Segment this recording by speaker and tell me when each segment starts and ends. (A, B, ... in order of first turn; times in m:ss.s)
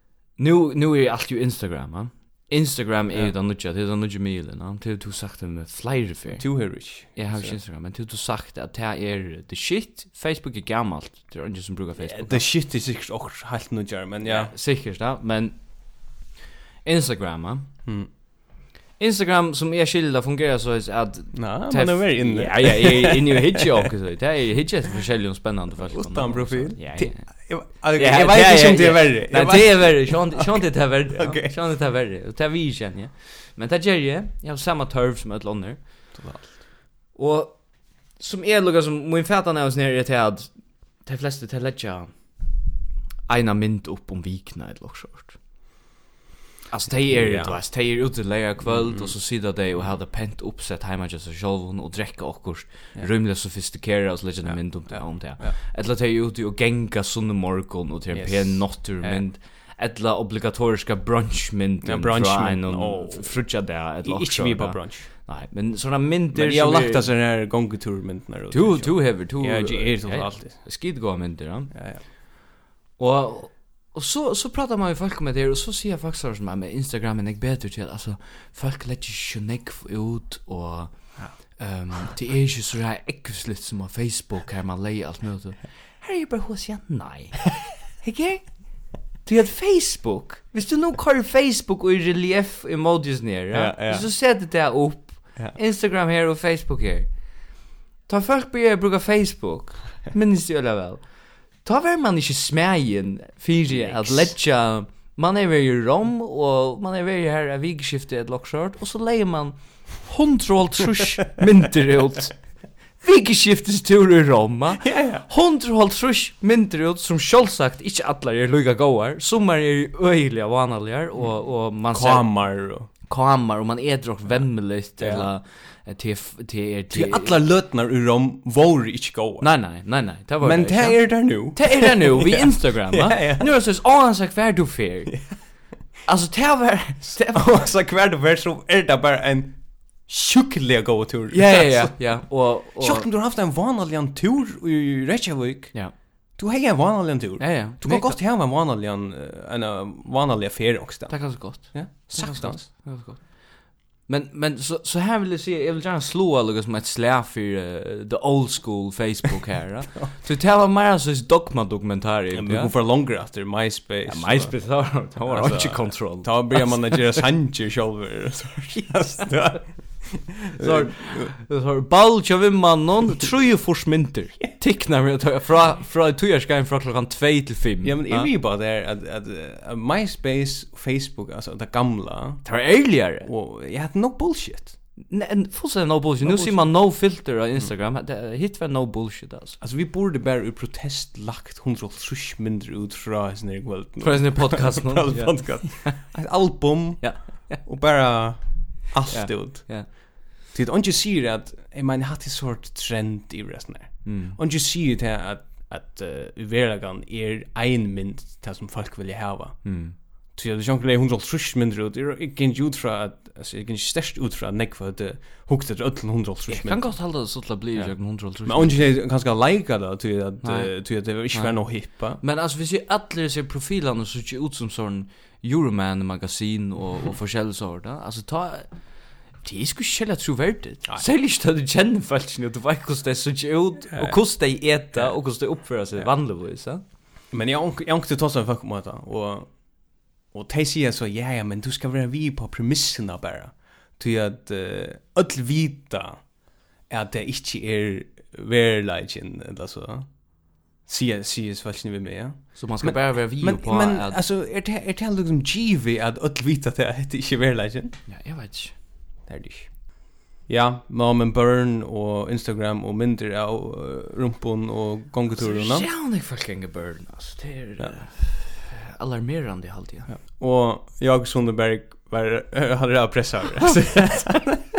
0:00.4-0:06.5 A
0:06.3-0:07.6 B
0:07.1-0:12.4 A
0:12.0-0:14.5 B
0:14.2-0:15.6 A
0:16.8-0:17.7 A
0:19.0-0:36.1 A
0:21.3-0:23.9 B
0:25.8-0:31.6 B
0:36.2-0:36.6 B
0:37.1-0:37.6 A
0:38.2-0:42.1 A
0:43.3-0:45.4 A
0:46.7-1:07.1 A
0:47.1-0:47.6 B
0:48.6-0:49.1 B
0:54.4-0:55.6 B
0:58.1-0:59.2 B
1:01.8-1:05.1 B
1:06.3-1:10.6 B
1:08.5-1:11.7 A
1:11.7-1:12.0 B
1:13.0-1:28.7 A
1:29.2-1:37.1 A
1:33.5-1:34.1 B
1:38.1-1:41.1 A
1:41.6-1:52.4 A
1:43.7-1:44.3 B
1:53.0-2:07.4 A
1:54.8-1:55.3 B
2:01.9-2:02.9 B
2:05.0-2:05.3 B
2:06.9-2:09.5 B
2:09.4-2:17.6 A
2:10.4-2:13.5 B
2:15.1-2:15.4 B
2:17.2-2:25.8 B
2:21.3-2:23.1 A
2:26.4-2:32.7 B
2:27.4-2:28.2 A
2:31.1-2:42.7 A
2:42.3-2:51.3 B
2:44.1-2:47.2 A
2:50.6-2:58.3 A
2:57.8-3:02.5 B
3:02.4-3:03.3 A
3:03.2-3:04.8 B
3:05.1-3:09.6 A
3:06.2-3:06.7 B
3:09.6-3:20.0 B
3:14.0-3:16.1 A
3:17.0-3:17.7 A
3:19.1-3:19.9 A
3:20.5-3:29.8 B
3:24.0-3:24.4 A
3:29.6-3:30.0 A
3:30.3-3:37.0 B
3:36.5-3:38.9 A
3:37.8-3:42.2 B
3:40.4-3:40.7 A
3:41.3-3:41.6 A
3:42.2-3:48.7 A
3:49.4-3:56.8 A
3:53.9-3:54.2 B
3:57.3-3:59.5 B
4:00.3-4:06.2 B
4:06.9-4:10.2 B
4:10.8-4:18.0 B
4:12.6-4:14.2 A
4:18.1-4:18.7 A
4:19.3-4:25.9 B
4:25.4-4:30.1 A
4:30.1-4:34.6 B